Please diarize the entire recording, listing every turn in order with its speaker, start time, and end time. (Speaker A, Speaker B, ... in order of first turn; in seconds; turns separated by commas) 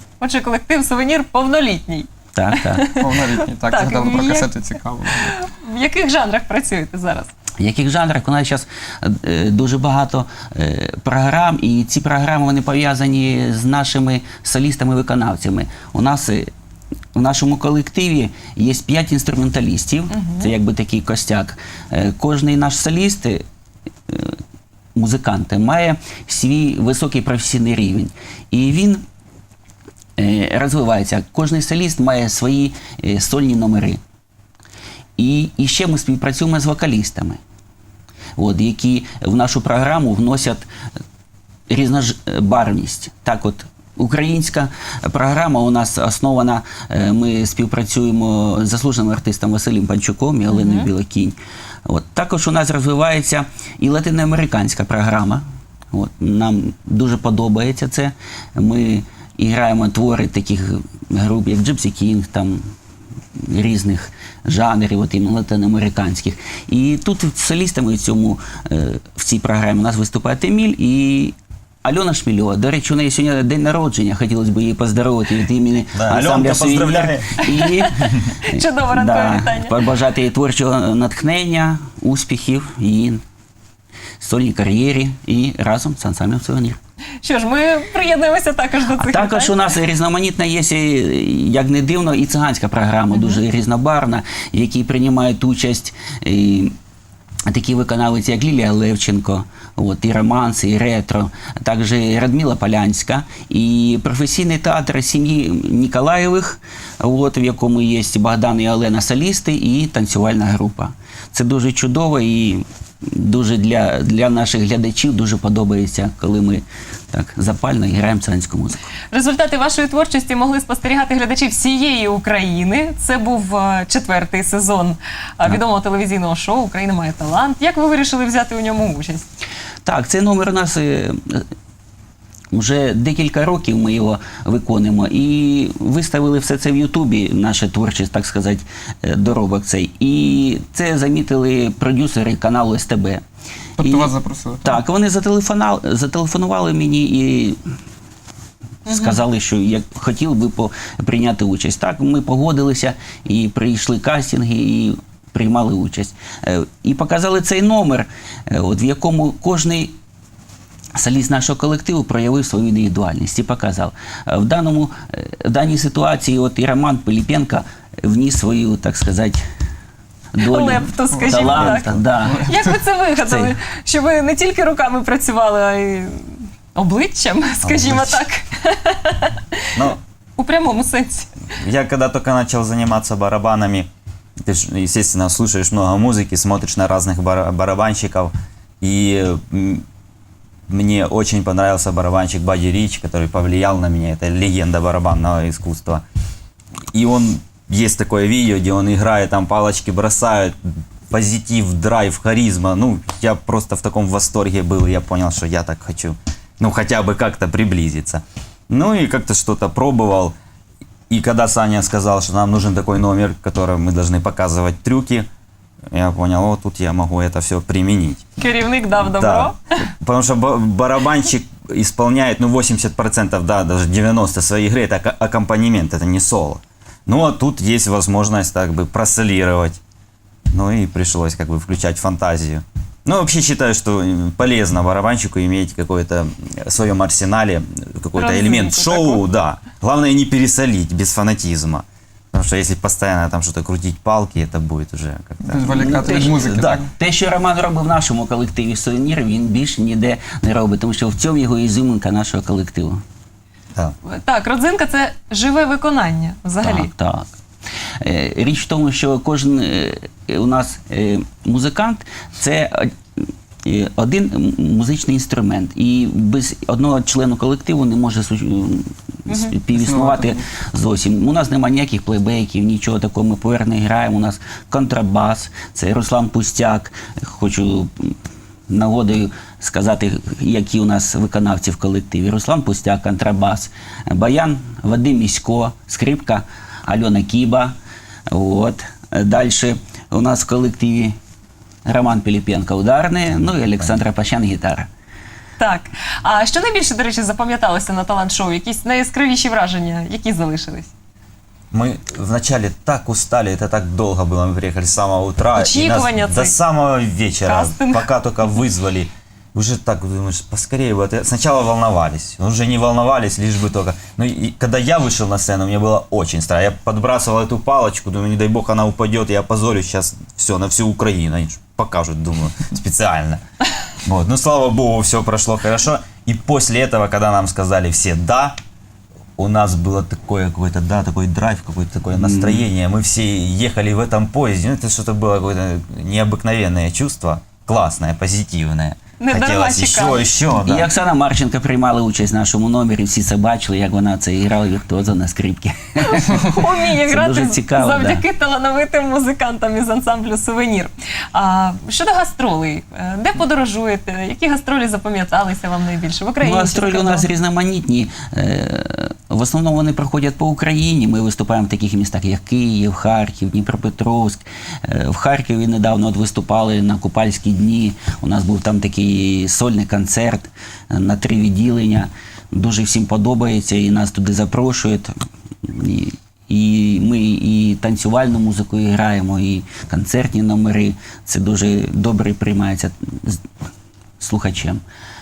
Speaker A: 0.2-3.1, Speaker B: 2.4-2.9, Speaker C: 3.0-5.3, Speaker A: 3.7-4.5, Speaker A: 5.2-7.3, Speaker B: 7.6-16.5, Speaker B: 17.1-23.4, Speaker A: 20.1-20.5, Speaker B: 24.1-24.4, Speaker B: 24.9-29.0, Speaker B: 30.2-34.0, Speaker B: 35.2-37.4, Speaker B: 38.4-40.7, Speaker B: 41.7-62.6, Speaker A: 50.5-50.9, Speaker B: 63.4-77.9, Speaker D: 76.0-77.4, Speaker A: 77.4-79.8, Speaker B: 78.5-83.2, Speaker B: 84.2-86.8, Speaker A: 87.2-89.6, Speaker B: 89.0-96.8, Speaker B: 97.5-118.9, Speaker A: 119.1-129.2, Speaker B: 129.8-131.5, Speaker B: 132.5-143.2, Speaker C: 143.8-144.8, Speaker B: 143.8-144.1, Speaker B: 144.6-147.6, Speaker B: 148.9-159.9, Speaker A: 148.9-149.2, Speaker B: 161.0-169.4, Speaker B: 170.3-172.4, Speaker A: 170.4-179.4, Speaker C: 171.1-172.8, Speaker B: 173.2-173.6, Speaker D: 177.6-178.2, Speaker A: 180.4-181.3, Speaker D: 181.6-183.9, Speaker D: 184.4-189.8, Speaker D: 190.7-196.0, Speaker D: 196.9-200.6, Speaker D: 201.1-210.3, Speaker D: 211.1-215.3, Speaker D: 215.9-218.2, Speaker A: 218.4-219.6, Speaker D: 219.0-229.8, Speaker D: 230.5-246.3, Speaker A: 238.2-239.2, Speaker C: 245.4-246.9, Speaker B: 245.7-253.0, Speaker A: 254.1-256.9, Speaker B: 256.6-257.3, Speaker B: 258.0-278.2, Speaker A: 269.3-269.6, Speaker C: 269.7-270.4, Speaker B: 278.7-287.8, Speaker B: 288.3-291.2, Speaker B: 291.9-294.9, Speaker A: 295.6-300.9, Speaker D: 301.7-323.4, Speaker A: 305.6-306.6, Speaker A: 307.4-308.1, Speaker D: 324.1-328.6, Speaker D: 329.4-340.9, Speaker B: 332.2-332.7, Speaker A: 339.2-340.3, Speaker B: 340.6-348.2, Speaker A: 346.0-357.3, Speaker B: 356.4-383.4, Speaker B: 384.2-384.8